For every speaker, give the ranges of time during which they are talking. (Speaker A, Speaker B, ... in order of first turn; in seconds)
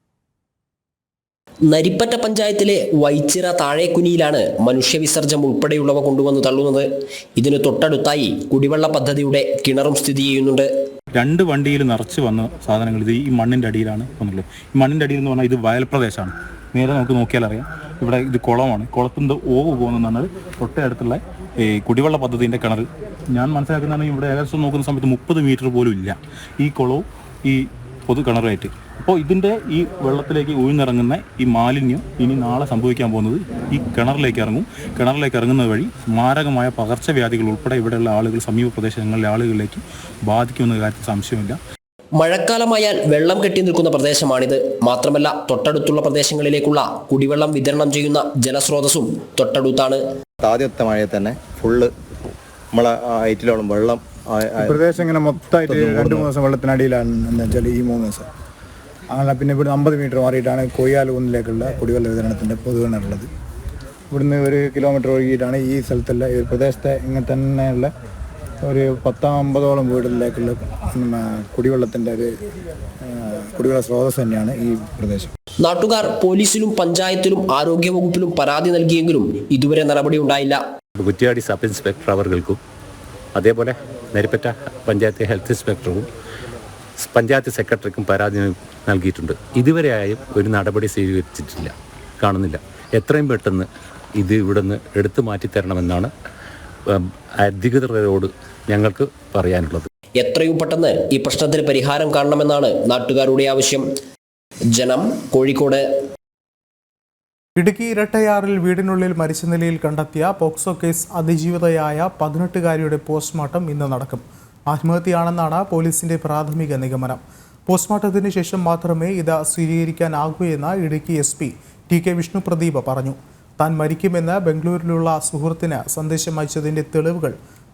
Speaker A: 1.7-10.7, 42.2-50.0, 75.6-80.6, 100.2-103.9, 104.8-105.9
Speaker B: 11.2-41.6
Speaker C: 50.4-54.9, 55.7-56.3
Speaker D: 54.6-58.3, 59.1-63.3, 64.1-67.9, 68.6-72.3, 73.0-75.3
Speaker E: 81.0-82.6, 83.3-86.1, 87.0-96.1, 96.9-99.9
Speaker F: 107.6-127.4